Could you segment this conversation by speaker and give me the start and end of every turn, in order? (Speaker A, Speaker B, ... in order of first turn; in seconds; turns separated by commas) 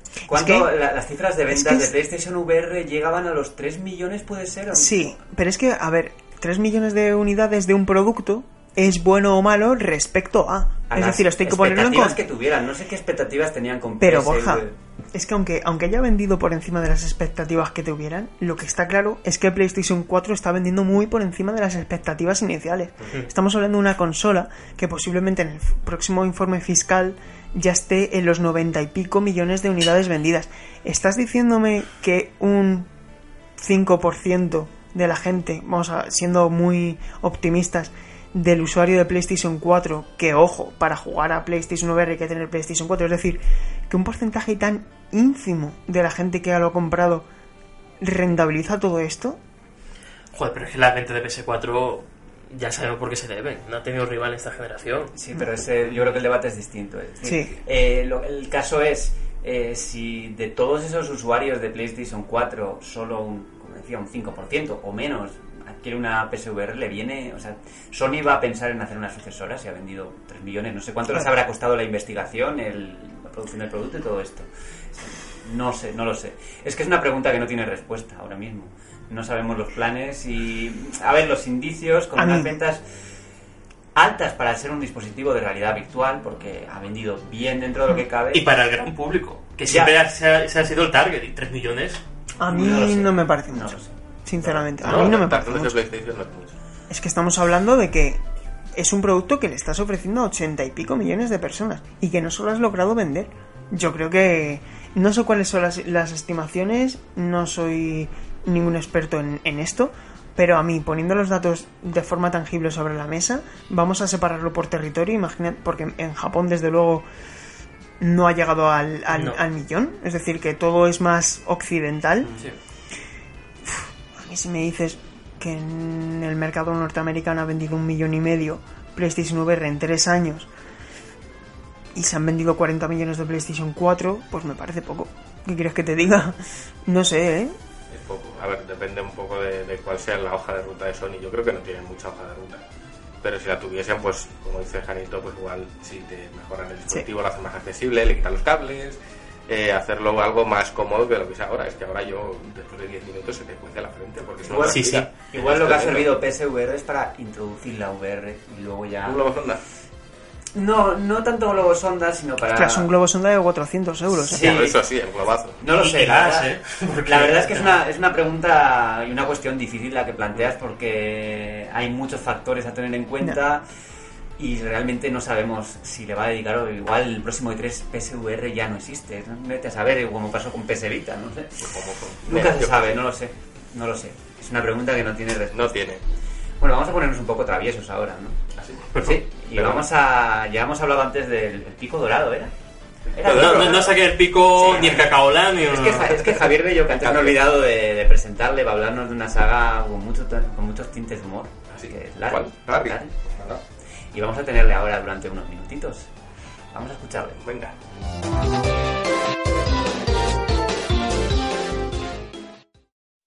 Speaker A: 0.3-0.7, Speaker B: 0.3-5.1, Speaker A: 1.5-1.9, Speaker A: 4.7-12.2, Speaker B: 10.9-14.7, Speaker A: 14.0-32.9, Speaker A: 33.6-47.2, Speaker A: 48.0-49.4, Speaker C: 50.3-55.1, Speaker B: 55.1-82.8, Speaker A: 57.2-57.5, Speaker A: 82.2-82.6, Speaker B: 83.9-88.4, Speaker C: 88.3-92.0, Speaker B: 89.7-89.9, Speaker A: 92.4-95.7, Speaker B: 92.5-95.0, Speaker D: 94.8-96.5, Speaker A: 96.9-98.2, Speaker A: 98.7-117.0, Speaker A: 118.0-122.3, Speaker C: 119.1-119.4, Speaker A: 123.6-130.5, Speaker A: 131.9-137.5, Speaker D: 137.9-142.6, Speaker D: 143.2-156.1, Speaker B: 154.4-159.2, Speaker C: 154.7-155.1, Speaker D: 159.0-159.6, Speaker B: 160.6-162.9, Speaker A: 162.5-164.4, Speaker B: 164.3-164.7, Speaker D: 164.3-165.6, Speaker C: 164.3-164.6, Speaker B: 165.6-173.6, Speaker C: 165.8-167.7, Speaker B: 174.4-181.6, Speaker D: 181.6-183.0, Speaker B: 182.2-185.8, Speaker D: 185.5-186.0, Speaker B: 186.6-188.4, Speaker D: 188.5-188.9, Speaker C: 188.9-189.2, Speaker B: 189.0-192.5, Speaker D: 189.5-189.8, Speaker D: 193.1-193.9, Speaker B: 193.2-193.9, Speaker C: 193.3-196.1, Speaker B: 194.5-195.1, Speaker D: 194.7-195.0, Speaker B: 195.6-203.1, Speaker D: 195.9-197.4, Speaker D: 201.7-203.6, Speaker B: 204.1-206.1, Speaker B: 206.7-207.4, Speaker D: 207.3-207.7